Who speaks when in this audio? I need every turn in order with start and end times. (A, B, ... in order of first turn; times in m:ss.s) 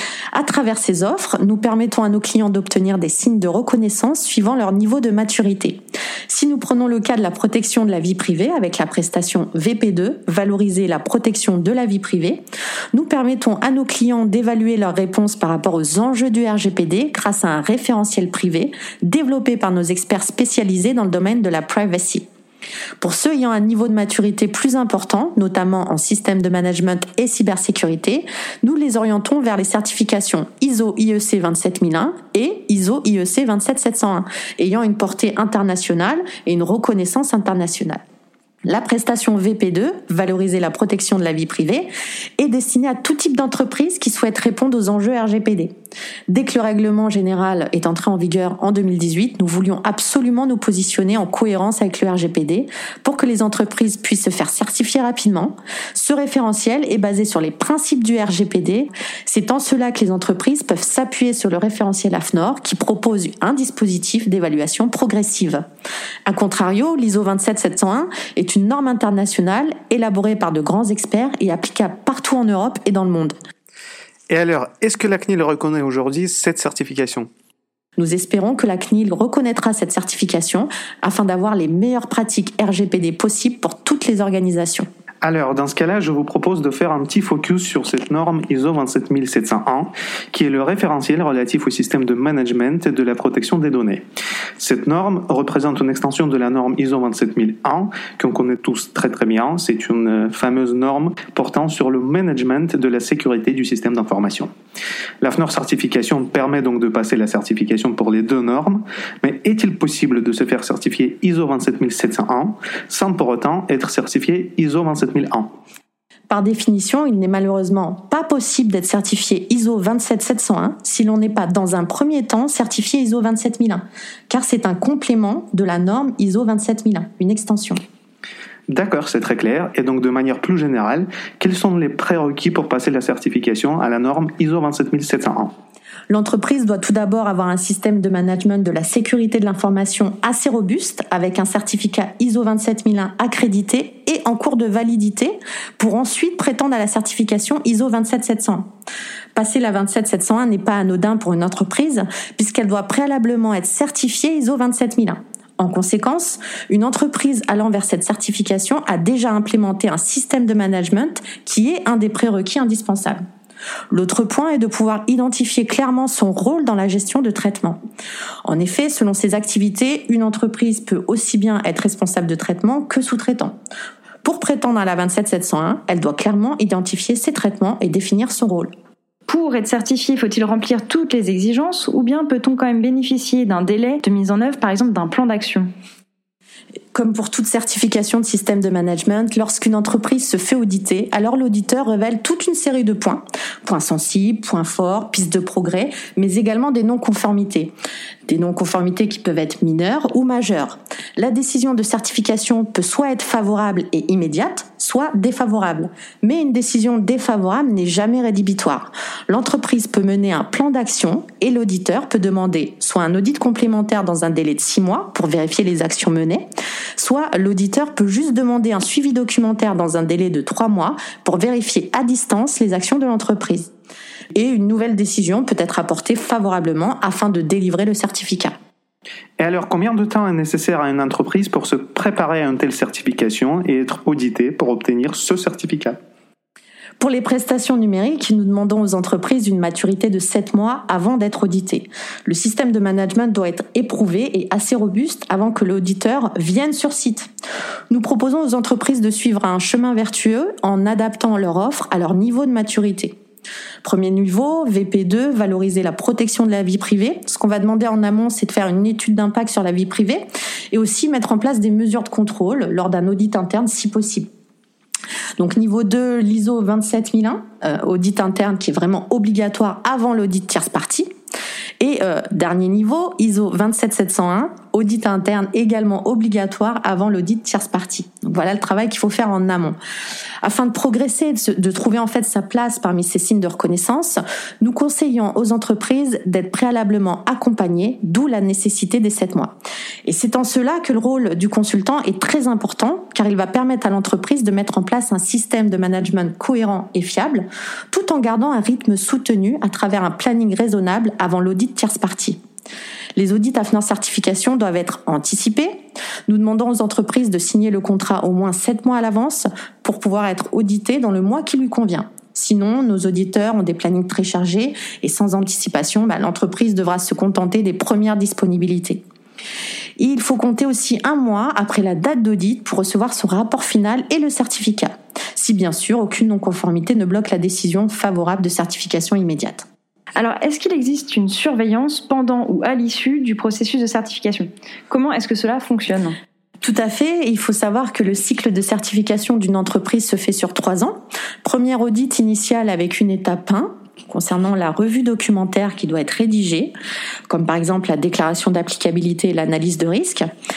0:00.3-0:12.4 A
0:12.9-0:22.2 A
0:23.0-0:38.0 A
0:38.6-0:45.7 A
0:46.3-1:05.6 A
1:06.2-1:13.4 A
1:14.3-1:17.3 B
1:18.0-1:24.9 A
1:25.2-1:34.0 B
1:34.6-1:44.5 B
1:45.2-1:55.5 B
1:56.3-2:07.8 A
2:08.7-2:15.5 B
2:16.1-2:28.7 A
2:29.3-2:43.2 A
2:43.9-2:47.8 A
2:48.4-2:53.5 A
2:54.2-2:58.7 A
2:59.3-3:05.7 C
3:06.9-3:17.7 A
3:18.2-3:43.7 A
3:44.3-3:48.5 A
3:49.4-3:56.0 B
3:57.0-4:07.3 A
4:07.9-4:13.2 A
4:13.8-4:24.3 A
4:25.4-4:31.1 A
4:31.8-4:39.8 A
4:40.4-4:49.5 A
4:50.0-5:02.4 A
5:03.2-5:19.0 A
5:20.0-5:29.6 A
5:30.2-5:36.2 C
5:36.6-5:46.7 A
5:47.3-5:50.3 A